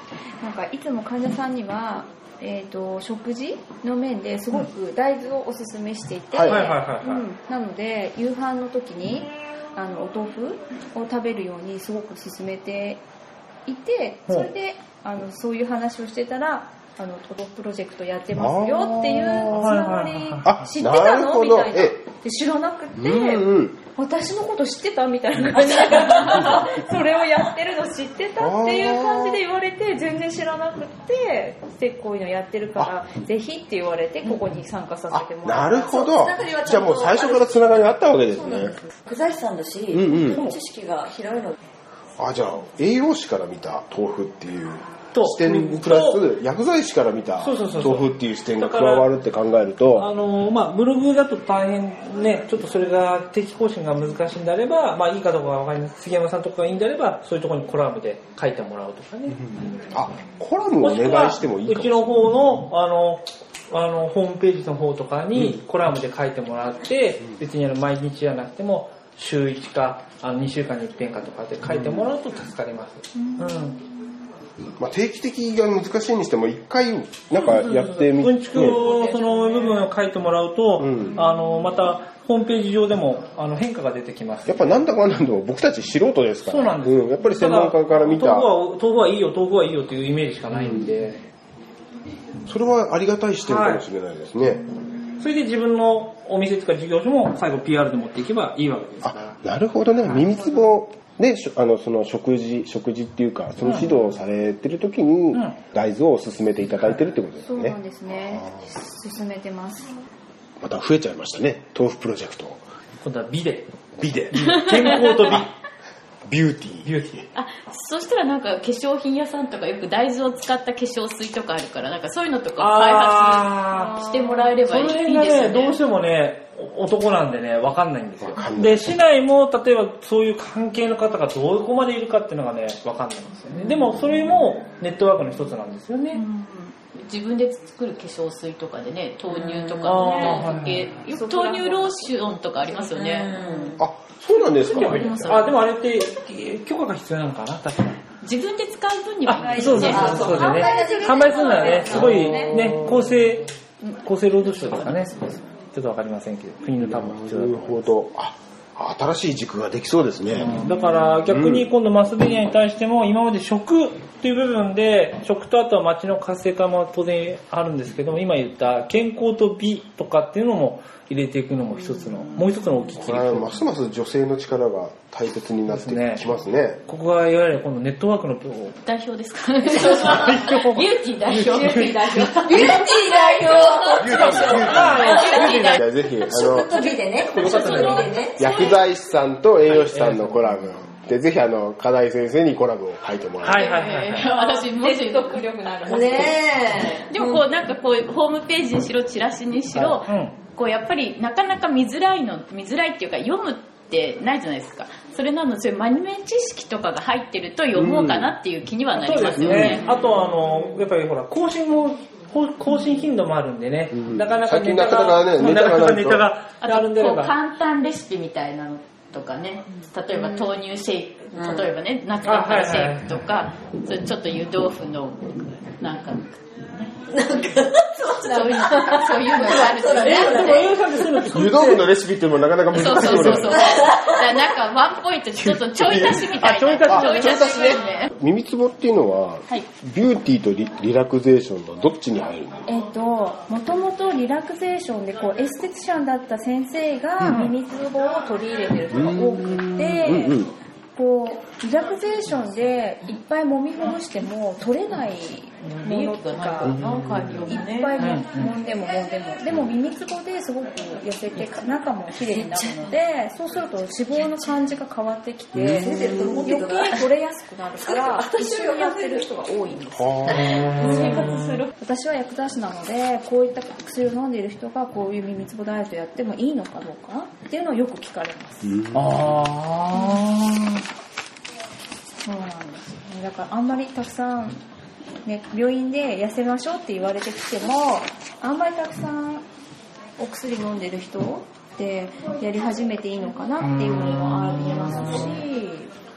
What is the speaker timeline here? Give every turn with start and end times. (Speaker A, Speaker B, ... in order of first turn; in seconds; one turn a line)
Speaker A: 0.4-13.0
Speaker B: 6.3-6.6
Speaker C: 6.5-7.2
Speaker A: 13.7-36.0
Speaker B: 18.4-19.7
Speaker C: 19.1-20.5
Speaker B: 20.4-22.0
Speaker B: 23.0-23.8
Speaker B: 28.4-29.4
Speaker B: 35.1-38.8
Speaker D: 35.9-37.8
Speaker D: 39.0-41.6
Speaker B: 39.9-40.5
Speaker B: 42.2-50.1
Speaker C: 45.1-46.2
Speaker C: 47.4-49.1
Speaker C: 50.0-59.4
Speaker B: 59.5-62.1
Speaker C: 60.8-73.8
Speaker B: 65.3-65.6
Speaker B: 71.7-72.1
Speaker A: 73.2-73.8
Speaker B: 74.8-78.8
Speaker C: 77.5-84.6
Speaker A: 78.7-79.9
Speaker B: 80.8-81.2
Speaker A: 81.2-81.6
Speaker B: 84.5-88.5
Speaker C: 86.5-91.2
Speaker B: 90.5-90.8
Speaker B: 92.5-94.7
Speaker C: 93.4-93.8
Speaker C: 95.2-99.3
Speaker B: 99.0-108.6
Speaker A: 107.5-109.9
Speaker B: 110.6-112.6
Speaker C: 113.0-113.7
Speaker B: 114.0-114.5
Speaker C: 114.3-115.5
Speaker E: 114.8-115.4
Speaker B: 116.3-117.2
Speaker C: 116.8-117.2
Speaker E: 117.3-125.8
Speaker C: 122.6-124.0
Speaker C: 124.6-136.2
Speaker B: 128.2-128.9
Speaker A: 136.1-136.8
Speaker E: 136.9-143.7
Speaker C: 139.8-140.9
Speaker A: 140.0-140.5
Speaker A: 141.0-143.1
Speaker D: 143.3-143.7
Speaker B: 143.8-145.4
Speaker C: 144.7-148.0
Speaker E: 144.8-145.6
Speaker E: 148.2-150.4
Speaker C: 149.2-157.9
Speaker D: 149.5-152.2
Speaker A: 149.6-152.7
Speaker B: 151.9-152.9
Speaker E: 154.4-155.4
Speaker B: 156.8-160.6
Speaker C: 160.3-173.6
Speaker B: 161.3-161.7
Speaker B: 173.0-176.8
Speaker C: 175.7-176.2
Speaker C: 176.9-178.8
Speaker E: 178.8-182.9
Speaker C: 179.7-182.2
Speaker D: 182.3-185.5
Speaker E: 183.4-183.9
Speaker B: 184.0-185.2
Speaker C: 184.2-185.8
Speaker E: 185.0-185.8
Speaker B: 185.7-186.8
Speaker D: 186.3-188.7
Speaker C: 187.3-188.2
Speaker E: 187.6-188.8
Speaker B: 188.4-193.7
Speaker C: 189.7-190.5
Speaker C: 193.4-194.3
Speaker E: 193.6-195.4
Speaker A: 194.3-196.4
Speaker D: 195.9-197.4
Speaker E: 196.9-209.8
Speaker C: 200.0-200.4
Speaker B: 207.7-208.3
Speaker C: 208.9-217.3
Speaker B: 209.4-209.8
Speaker B: 213.9-216.3
Speaker E: 216.6-230.8
Speaker C: 222.2-223.2
Speaker D: 227.1-231.2
Speaker C: 229.9-231.9
Speaker B: 231.3-233.8
Speaker E: 232.7-238.1
Speaker B: 235.8-236.3
Speaker C: 236.4-237.3
Speaker B: 236.9-242.6
Speaker A: 242.7-250.4
Speaker B: 248.9-250.5
Speaker A: 251.0-256.8
Speaker E: 255.6-258.1
Speaker B: 256.7-257.5
Speaker A: 257.5-278.8
Speaker C: 258.0-258.5
Speaker D: 262.1-262.9
Speaker D: 265.6-267.1
Speaker D: 267.8-269.3
Speaker B: 269.9-270.5
Speaker E: 270.3-271.7
Speaker C: 270.3-271.4
Speaker B: 278.6-279.1
Speaker C: 278.9-280.8
Speaker A: 279.9-280.2
Speaker A: 282.2-284.6
Speaker A: 285.2-289.4
Speaker A: 290.2-295.9